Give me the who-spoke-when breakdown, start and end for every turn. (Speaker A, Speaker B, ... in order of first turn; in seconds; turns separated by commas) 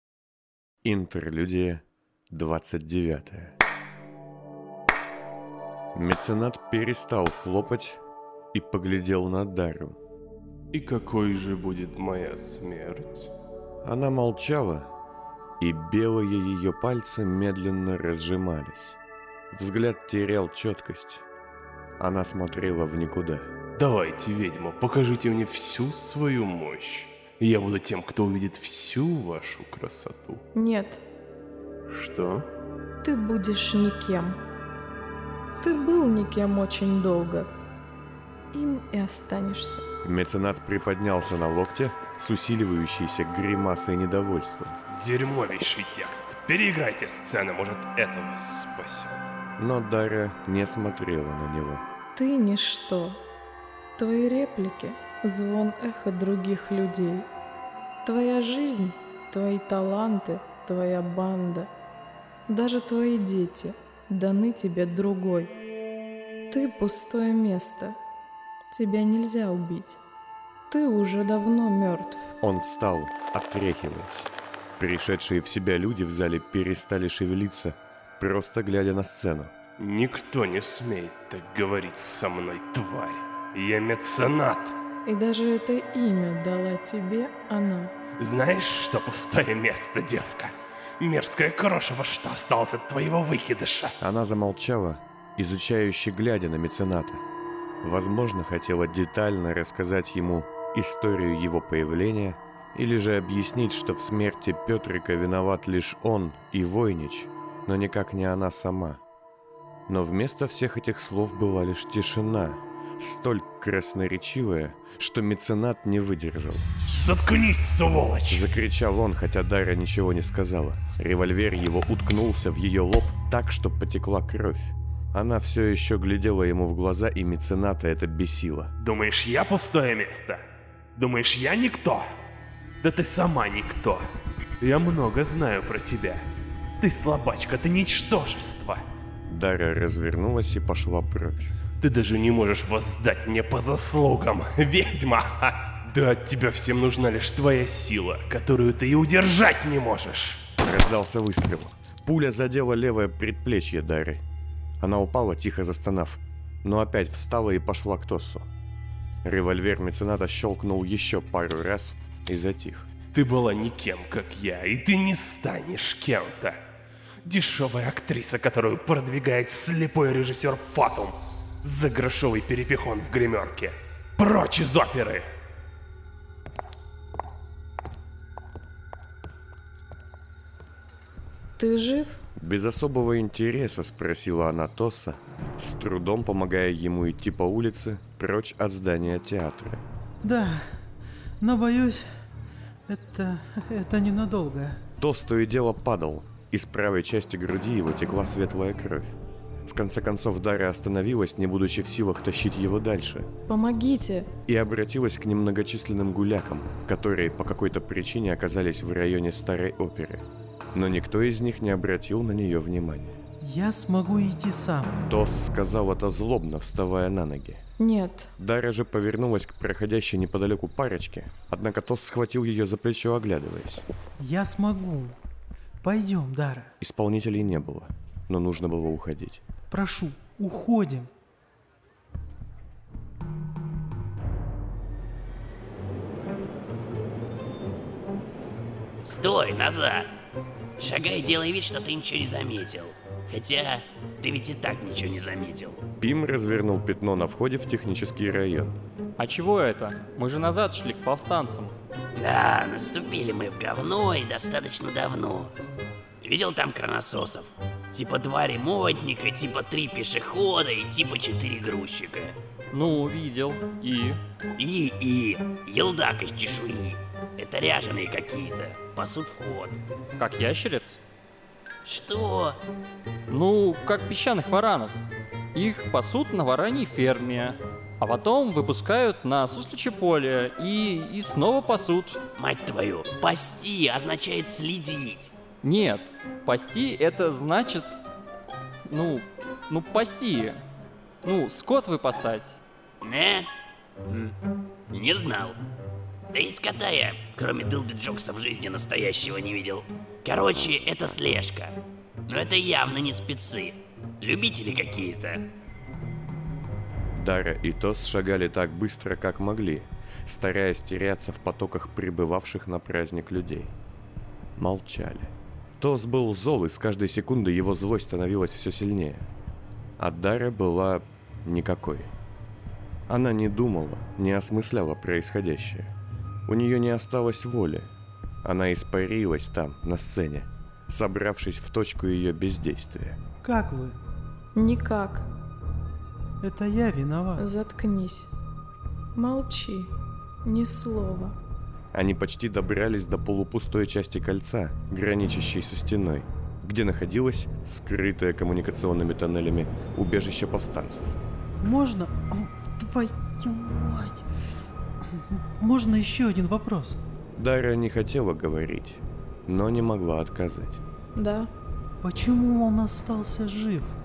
Speaker A: 0.8-3.5, Speaker A: 6.0-8.0, Speaker A: 8.5-10.0, Speaker B: 10.7-13.3, Speaker A: 13.8-14.9, Speaker A: 15.6-19.0, Speaker A: 19.5-21.2, Speaker A: 22.0-23.5, Speaker B: 23.8-30.4, Speaker C: 30.5-31.0, Speaker B: 31.9-32.5, Speaker C: 33.0-34.4, Speaker C: 35.6-37.5, Speaker C: 38.5-39.9, Speaker A: 40.0-44.8, Speaker B: 44.9-49.3, Speaker A: 49.6-51.8, Speaker C: 52.1-53.2, Speaker C: 54.0-57.3, Speaker C: 58.0-61.7, Speaker C: 62.5-65.5, Speaker C: 66.5-68.0, Speaker C: 68.7-70.0, Speaker C: 70.7-72.2, Speaker A: 72.4-79.5, Speaker B: 79.8-84.8, Speaker C: 85.1-87.9, Speaker B: 88.2-94.0, Speaker A: 94.0-97.2, Speaker A: 97.8-109.0, Speaker A: 109.9-116.7, Speaker B: 116.9-118.4, Speaker A: 118.3-128.7, Speaker B: 128.8-130.4, Speaker B: 131.0-132.0, Speaker B: 132.8-134.1, Speaker B: 134.6-136.2, Speaker B: 136.8-138.8, Speaker A: 139.3-141.5, Speaker B: 141.8-150.4, Speaker A: 150.6-154.2, Speaker A: 154.8-158.5, Speaker A: 159.2-162.9, Speaker B: 163.1-166.6, Speaker B: 167.2-175.3, Speaker C: 181.6-182.2, Speaker A: 182.4-189.8, Speaker D: 190.2-190.7, Speaker D: 191.4-192.1, Speaker D: 192.9-194.8, Speaker A: 195.0-199.2, Speaker A: 199.7-203.3, Speaker C: 203.5-204.3, Speaker A: 204.5-213.2, Speaker D: 213.4-215.0, Speaker A: 215.1-217.6, Speaker C: 217.8-218.3, Speaker A: 218.4-223.8, Speaker D: 224.2-225.2, Speaker D: 225.8-226.7, Speaker A: 226.8-229.4, Speaker D: 229.7-231.1, Speaker E: 239.0-240.1, Speaker E: 240.8-245.8, Speaker A: 246.0-248.8, Speaker F: 249.2-251.8, Speaker E: 252.1-255.5, Speaker E: 256.2-262.4, Speaker F: 262.7-264.2, Speaker E: 264.6-269.8, Speaker F: 270.2-271.0, Speaker E: 271.9-272.6, Speaker F: 273.3-275.0, Speaker F: 275.5-282.2, Speaker E: 282.4-285.3, Speaker F: 285.6-287.9, Speaker F: 288.9-290.6, Speaker F: 291.2-292.6, Speaker E: 293.0-293.5, Speaker E: 294.1-294.3, Speaker E: 294.9-295.6, Speaker E: 296.3-305.4, Speaker A: 307.1-313.7, Speaker A: 314.6-319.3, Speaker A: 320.0-322.1, Speaker A: 323.1-325.9, Speaker A: 326.5-327.9, Speaker A: 328.4-333.2, Speaker D: 333.4-334.0, Speaker C: 334.6-335.3, Speaker D: 336.4-337.5, Speaker C: 337.4-338.3, Speaker C: 339.1-339.9, Speaker C: 340.4-341.4, Speaker A: 341.9-351.2, Speaker D: 351.6-354.2, Speaker D: 355.1-357.0, Speaker A: 357.4-360.8, Speaker C: 361.1-361.5, Speaker D: 362.0-364.0